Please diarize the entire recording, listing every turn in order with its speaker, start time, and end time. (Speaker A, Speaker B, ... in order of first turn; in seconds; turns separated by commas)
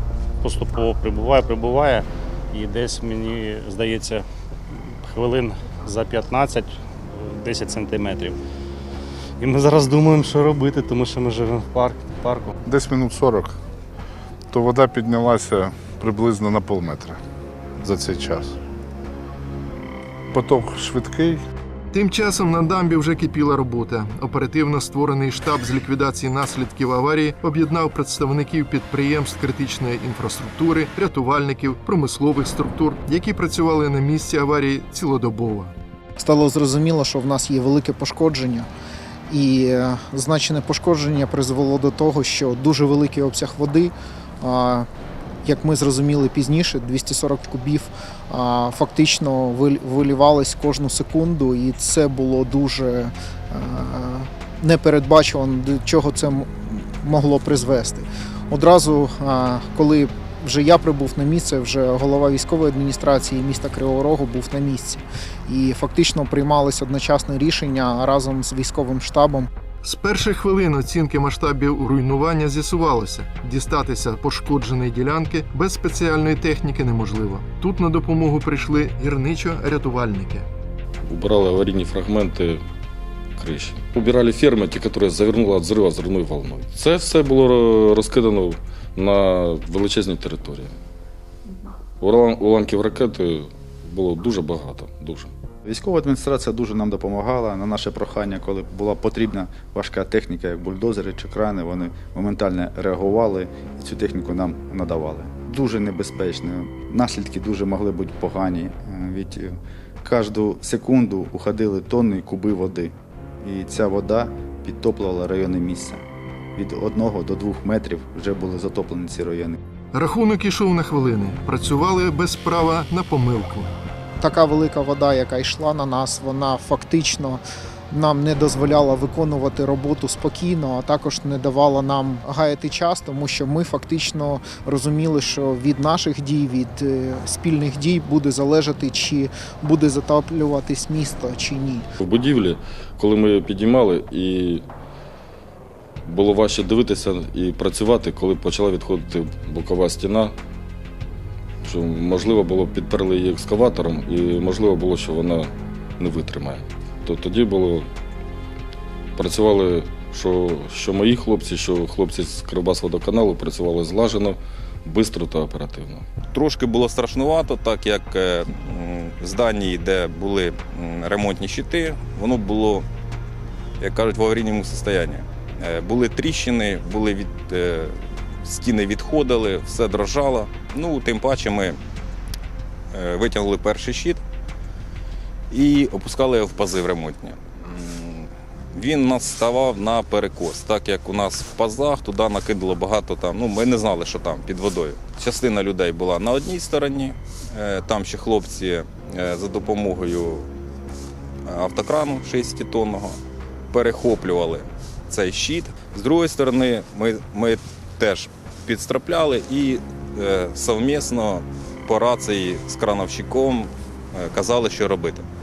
Speaker A: 0.4-4.2, Speaker A: 5.0-8.4, Speaker A: 9.4-12.5, Speaker B: 12.7-13.6, Speaker B: 14.5-17.2, Speaker B: 17.8-18.5, Speaker B: 20.3-21.4, Speaker C: 21.9-35.7, Speaker D: 36.2-38.7, Speaker D: 39.3-44.9, Speaker D: 45.4-69.5, Speaker C: 69.8-80.5, Speaker E: 81.0-82.6, Speaker E: 83.4-90.7, Speaker E: 92.0-95.3, Speaker F: 95.6-116.0, Speaker F: 116.5-119.6, Speaker C: 119.9-123.7, Speaker D: 124.2-141.8, Speaker E: 142.0-144.6, Speaker E: 146.1-150.3, Speaker E: 151.6-157.9, Speaker E: 159.2-166.1, Speaker G: 166.3-172.8, Speaker G: 173.8-181.8, Speaker G: 182.9-184.2, Speaker G: 185.5-200.5, Speaker G: 201.5-203.2, Speaker G: 203.7-215.2